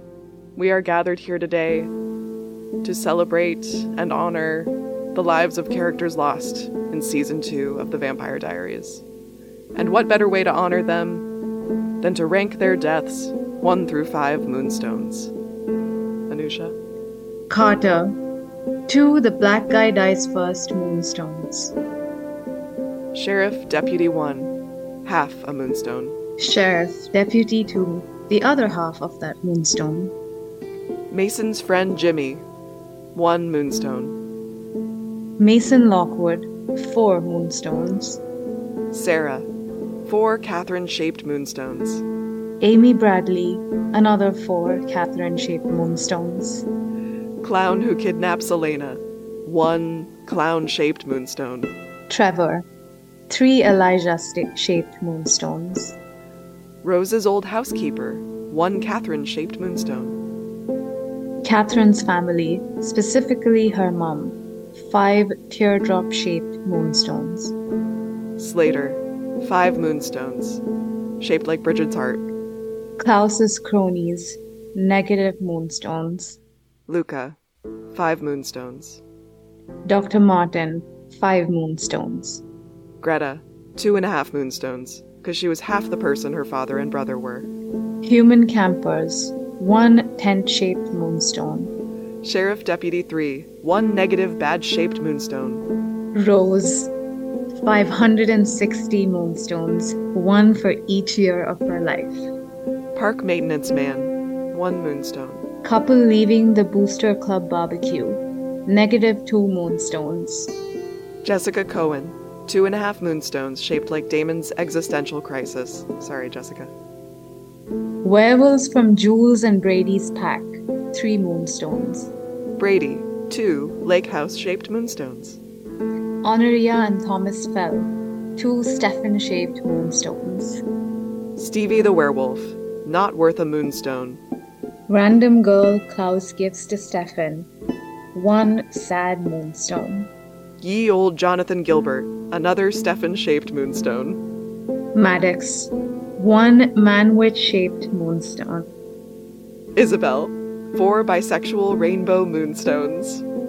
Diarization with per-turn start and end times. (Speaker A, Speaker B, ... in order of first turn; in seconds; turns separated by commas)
Speaker A: 0.6-1.9, Speaker A: 2.8-9.0, Speaker A: 9.7-11.3, Speaker A: 12.0-15.3, Speaker A: 16.3-16.8, Speaker B: 17.5-18.2, Speaker B: 18.9-21.7, Speaker A: 23.1-24.5, Speaker A: 25.1-26.2, Speaker B: 26.4-30.1, Speaker A: 31.1-32.5, Speaker A: 33.1-34.2, Speaker B: 35.4-38.2, Speaker A: 38.9-39.5, Speaker A: 40.0-42.0, Speaker B: 42.6-46.7, Speaker A: 47.4-51.7, Speaker B: 52.1-52.7, Speaker B: 53.3-56.0, Speaker A: 56.8-60.2, Speaker B: 61.4-67.5, Speaker A: 68.4-70.6, Speaker A: 71.2-72.3, Speaker B: 73.0-76.4, Speaker A: 76.9-77.4, Speaker A: 77.9-79.0, Speaker B: 79.9-82.4, Speaker A: 83.0-87.5, Speaker B: 88.0-91.7, Speaker A: 92.2-95.7, Speaker B: 96.1-96.9, Speaker B: 97.5-102.3, Speaker A: 103.0-105.4, Speaker B: 105.6-110.5, Speaker A: 111.2-116.7, Speaker B: 118.0-122.1, Speaker A: 122.6-125.4, Speaker B: 126.2-130.6, Speaker A: 131.4-134.2, Speaker B: 134.9-137.5, Speaker B: 138.1-140.1, Speaker A: 140.6-144.2, Speaker B: 144.9-148.7, Speaker A: 149.8-153.2